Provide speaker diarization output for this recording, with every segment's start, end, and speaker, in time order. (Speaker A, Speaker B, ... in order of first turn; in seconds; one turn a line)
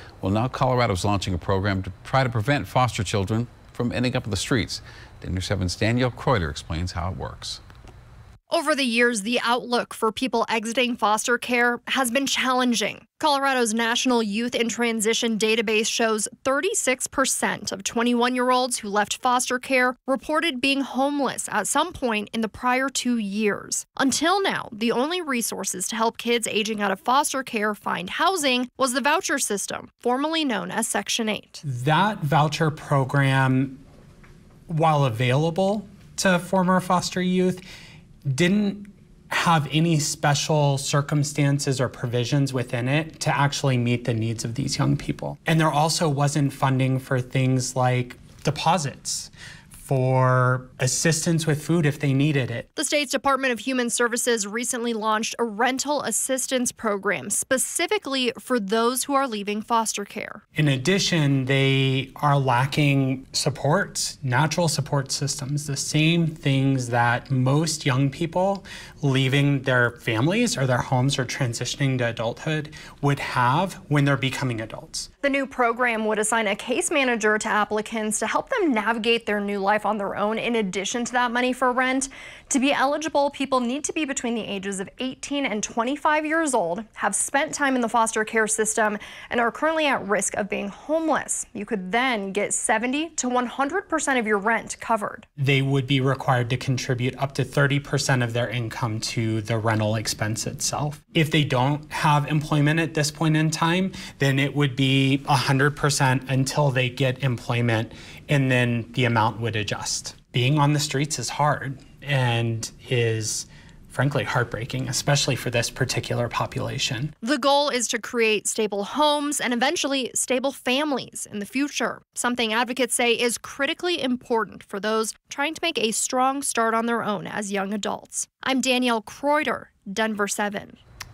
Speaker A: 0.2-7.6
Speaker B: 8.5-31.6
Speaker C: 31.6-33.8
Speaker C: 34.7-37.6
Speaker C: 38.3-52.7
Speaker B: 52.8-60.4
Speaker C: 60.5-75.1
Speaker B: 75.2-95.3
Speaker C: 95.4-117.1
Speaker B: 117.2-130.8